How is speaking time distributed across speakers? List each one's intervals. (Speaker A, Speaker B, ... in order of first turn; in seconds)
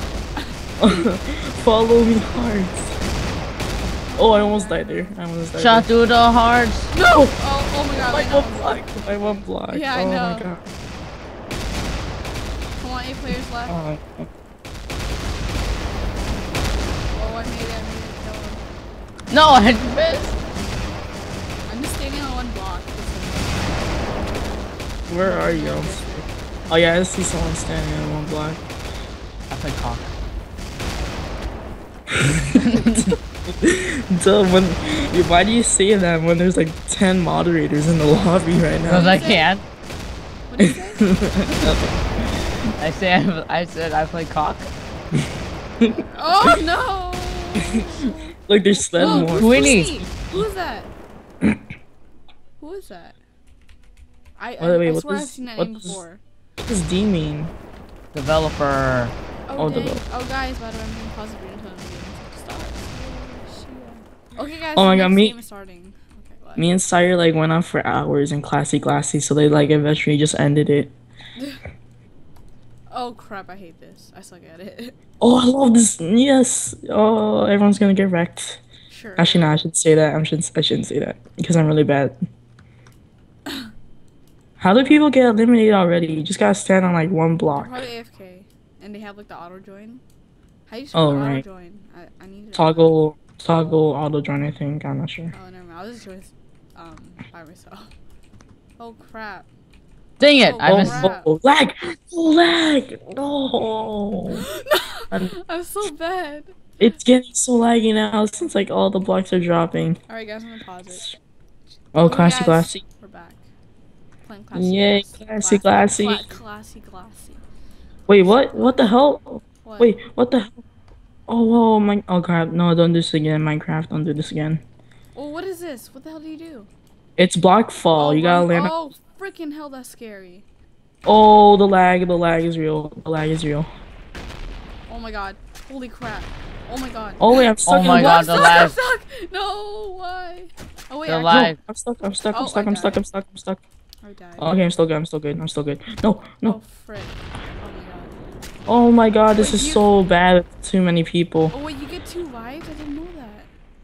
Speaker A: 0.4-1.1, 4.0-5.2, 6.9-10.5, 12.8-13.8, 17.1-18.7, 21.7-24.7, 25.2-26.3, 38.9-39.5, 40.5-41.8, 45.9-48.4, 48.9-50.9, 52.6-53.2, 54.4-56.2, 59.5-66.7, 72.9-74.9, 78.9-79.6, 87.5-90.0, 90.7-92.9, 95.3-97.9, 98.8-99.5, 100.3-101.3, 104.4-106.9, 110.1-111.1, 112.0-113.4, 114.2-117.4, 119.6-120.0, 125.1-126.7, 127.9-130.4, 134.9-141.5, 142.3-143.0, 144.0-144.5, 146.4-148.1, 149.3-149.9, 151.5-153.5
Speaker B: 0.8-3.0, 4.2-5.9, 7.1-7.3, 7.9-10.7, 13.7-14.3, 25.1-28.6, 32.1-39.2, 40.6-42.7, 45.8-46.6, 48.5-50.4, 54.6-56.0, 56.6-57.5, 59.5-60.0, 64.7-65.4, 66.6-70.9, 75.2-78.6, 79.2-82.2, 84.6-87.8, 90.9-91.4, 92.5-95.3, 100.6-104.5, 106.8-110.0, 111.9-112.8, 114.5-116.3, 118.1-120.6, 121.3-124.6, 127.2-128.8, 131.0-133.7, 137.2-138.5, 141.3-143.6, 144.4-146.6, 148.7-151.5
Speaker C: 5.6-6.9, 19.3-20.4, 29.5-30.1, 32.5-33.1, 38.8-39.6, 42.8-44.7, 48.9-50.0, 58.1-59.1, 100.2-101.1, 137.6-138.8, 141.1-141.6